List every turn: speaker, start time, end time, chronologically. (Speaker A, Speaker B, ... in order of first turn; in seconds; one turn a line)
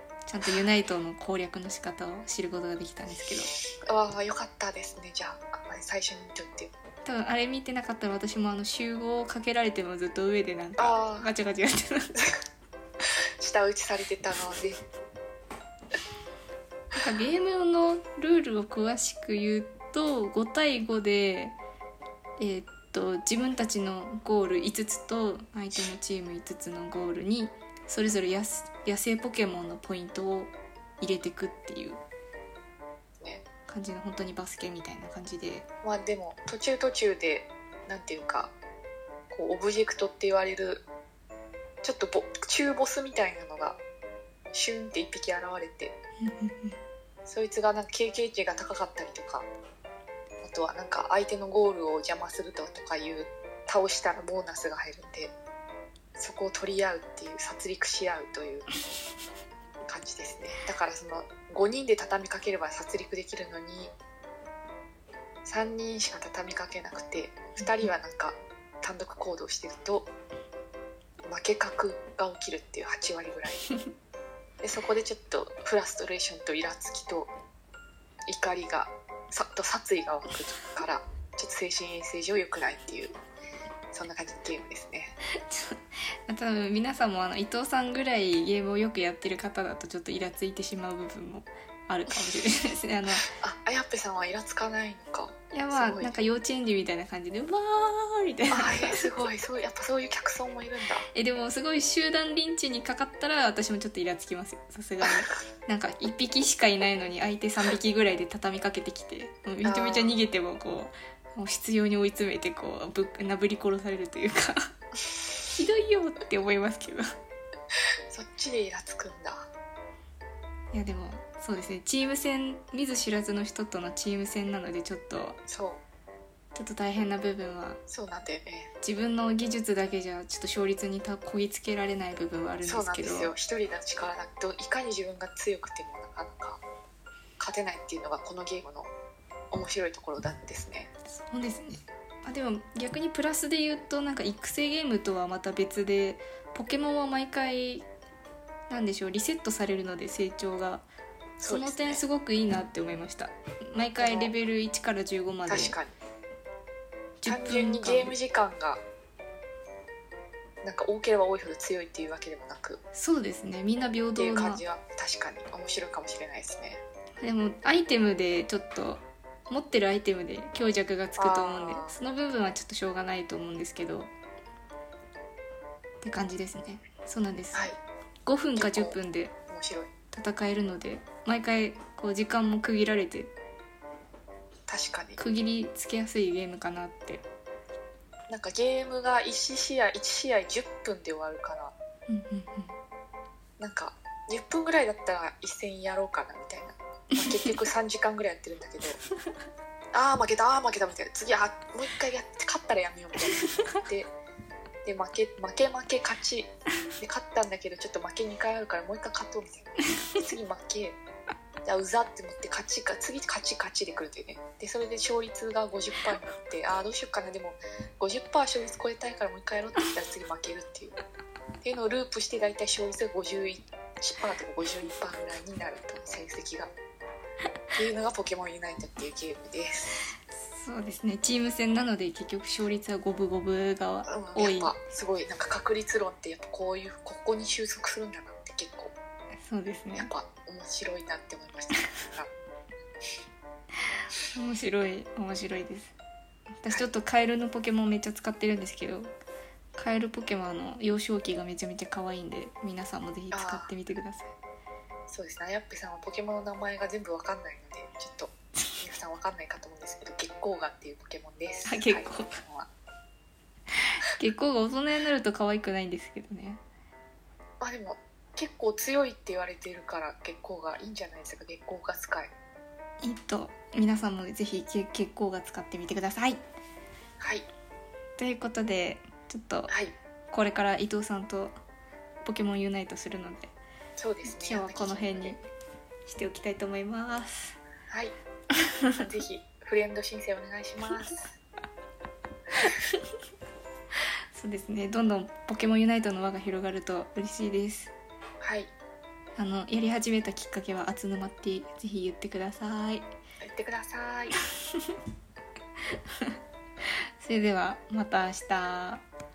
Speaker A: 0.3-3.5
Speaker B: 3.9-6.7
Speaker A: 7.0-12.2
Speaker B: 10.8-11.3
Speaker B: 13.4-14.8
Speaker A: 16.9-21.6
Speaker A: 22.4-32.0
Speaker A: 33.7-35.7
Speaker B: 35.8-38.5
Speaker B: 39.3-40.9
Speaker B: 41.8-43.8
Speaker B: 44.5-45.9
Speaker A: 46.2-46.8
Speaker B: 47.3-49.5
Speaker B: 50.4-55.3
Speaker B: 56.2-58.7
Speaker B: 59.9-63.9
Speaker B: 65.5-70.1
Speaker B: 71.2-73.7
Speaker B: 74.6-77.3
Speaker B: 78.3-83.2
Speaker B: 83.9-85.2
Speaker A: 85.4-93.3
Speaker B: 93.3-96.2
Speaker A: 95.5-99.3
Speaker B: 98.5-101.1
Speaker A: 101.1-114.7
Speaker B: 109.6-110.2
Speaker A: 115.4-117.0
Speaker B: 118.1-119.5
Speaker A: 120.7-125.4
Speaker B: 125.5-125.8
Speaker A: 126.5-127.8
Speaker B: 127.9-128.7
Speaker A: 128.8-133.3
Speaker B: 132.6-136.6
Speaker B: 137.4-138.9
Speaker B: 139.5-140.9
Speaker A: 141.1-147.9
Speaker A: 148.7-150.9
Speaker B: 151.4-152.0
Speaker A: 151.4-155.8
Speaker B: 154.0-154.3
Speaker B: 155.5-155.9
Speaker A: 157.2-158.2
Speaker B: 157.3-158.8
Speaker B: 160.6-162.8
Speaker A: 162.9-164.6
Speaker B: 164.2-166.8
Speaker A: 167.2-174.1
Speaker B: 171.2-172.0
Speaker A: 176.0-177.7
Speaker A: 178.3-179.3
Speaker B: 178.6-179.0
Speaker B: 179.5-179.9
Speaker A: 180.1-183.3
Speaker B: 184.7-185.2
Speaker A: 185.2-187.2
Speaker B: 188.3-191.7
Speaker A: 192.1-192.8
Speaker B: 193.6-199.0
Speaker A: 197.2-197.6
Speaker B: 199.9-204.1
Speaker B: 204.8-211.0
Speaker B: 211.7-221.0
Speaker B: 221.6-226.7
Speaker B: 227.8-230.1
Speaker A: 230.3-234.8
Speaker B: 234.1-238.9
Speaker A: 239.4-240.1
Speaker B: 239.9-242.3
Speaker A: 244.3-245.9
Speaker A: 246.6-249.1
Speaker A: 249.8-254.3
Speaker B: 253.3-253.7
Speaker B: 255.1-262.7
Speaker A: 261.7-262.4
Speaker A: 263.8-266.6
Speaker B: 267.6-272.3
Speaker A: 273.0-276.4
Speaker B: 277.2-277.5
Speaker A: 278.2-279.7
Speaker B: 279.7-279.9
Speaker A: 280.3-281.5
Speaker A: 282.2-283.5
Speaker B: 284.0-285.4
Speaker A: 284.2-285.4
Speaker A: 286.1-287.6
Speaker A: 288.6-289.0
Speaker B: 289.0-291.2
Speaker A: 294.3-297.9
Speaker B: 298.4-298.7
Speaker A: 299.4-303.1
Speaker B: 303.4-304.4
Speaker A: 304.4-304.9
Speaker A: 307.2-309.0